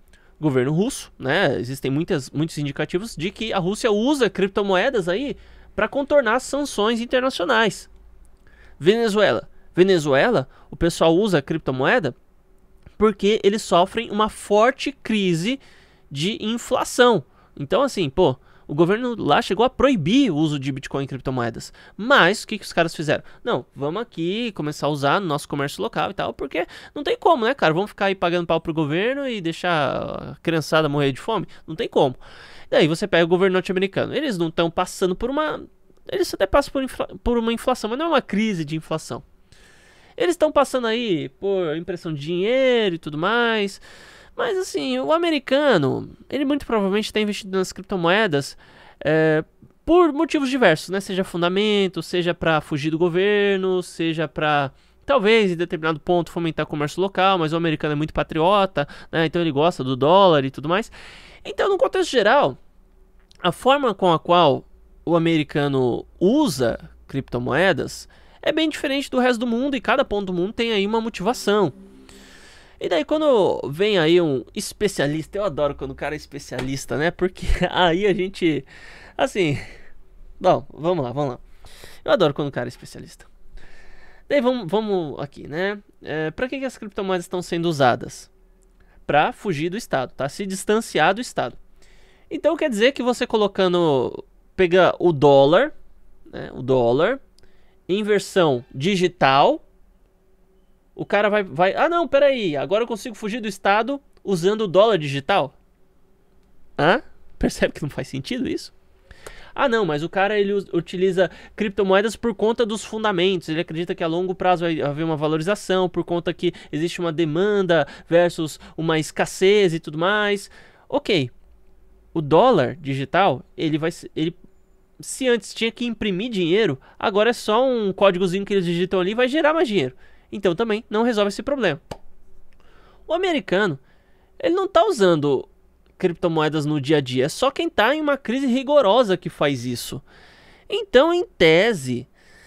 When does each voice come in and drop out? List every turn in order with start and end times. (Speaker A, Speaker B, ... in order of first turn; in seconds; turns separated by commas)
Speaker A: 0.4-7.9, Speaker A: 8.8-12.2, Speaker A: 13.0-32.2, Speaker A: 32.7-39.2, Speaker A: 40.2-43.8, Speaker A: 44.4-60.9, Speaker A: 61.4-62.6, Speaker A: 63.4-71.8, Speaker A: 72.8-78.7, Speaker A: 79.2-79.7, Speaker A: 80.4-81.4, Speaker A: 82.0-83.3, Speaker A: 84.3-88.3, Speaker A: 89.1-91.6, Speaker A: 92.3-95.7, Speaker A: 96.3-97.2, Speaker A: 97.9-99.6, Speaker A: 101.0-105.5, Speaker A: 106.8-108.7, Speaker A: 109.5-121.3, Speaker A: 122.1-124.4, Speaker A: 125.0-131.8, Speaker A: 133.1-133.8, Speaker A: 134.4-140.0, Speaker A: 140.7-142.1